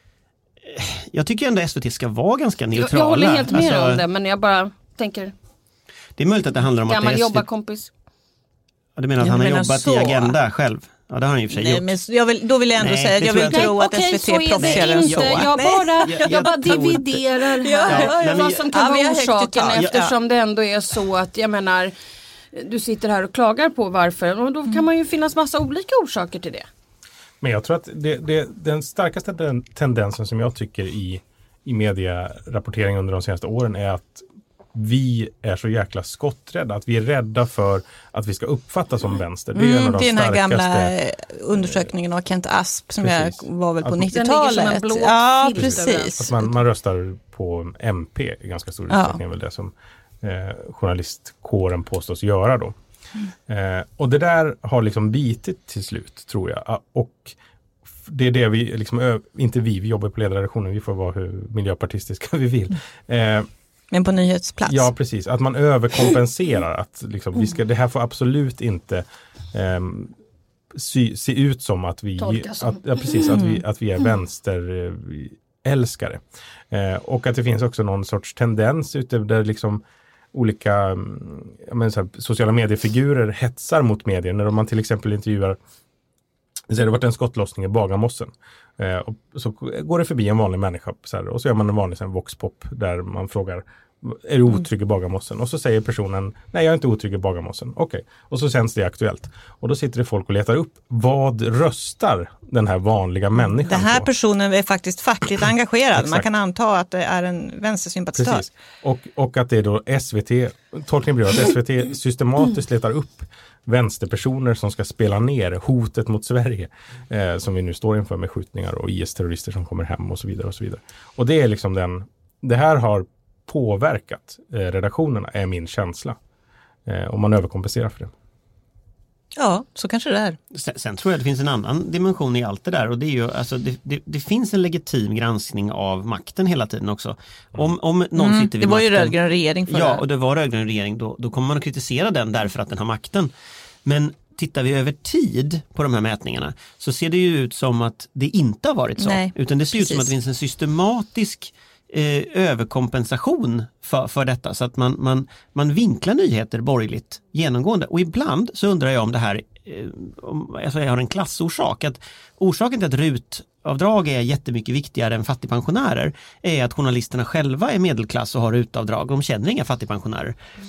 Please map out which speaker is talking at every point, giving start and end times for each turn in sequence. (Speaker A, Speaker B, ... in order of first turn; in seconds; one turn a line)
Speaker A: 0.7-4.0
Speaker B: 2.7-5.3
Speaker A: 6.2-7.4
Speaker B: 6.9-7.9
Speaker A: 9.0-11.9
Speaker C: 9.2-10.4
Speaker C: 11.5-20.1
Speaker A: 12.8-13.7
Speaker B: 13.5-21.9
Speaker A: 14.6-15.4
Speaker A: 16.1-17.2
Speaker A: 17.9-18.6
Speaker A: 19.8-20.1
Speaker B: 22.5-26.6
Speaker D: 27.4-41.0
Speaker C: 39.5-46.3
Speaker D: 43.0-44.1
Speaker B: 44.1-46.3
Speaker D: 45.6-52.7
Speaker C: 48.9-49.2
Speaker D: 53.5-57.4
Speaker D: 58.1-63.5
Speaker C: 63.9-64.9
Speaker D: 64.7-70.1
Speaker D: 70.8-79.8
Speaker B: 72.2-73.1
Speaker C: 73.3-73.6
Speaker D: 80.3-85.6
Speaker D: 86.7-104.1
Speaker C: 103.4-108.5
Speaker D: 105.9-106.3
Speaker D: 108.2-126.2
Speaker D: 126.9-128.1
Speaker C: 129.4-130.4
Speaker A: 130.5-143.3
Speaker C: 138.2-140.0
Speaker A: 143.8-170.4
Speaker C: 149.0-150.1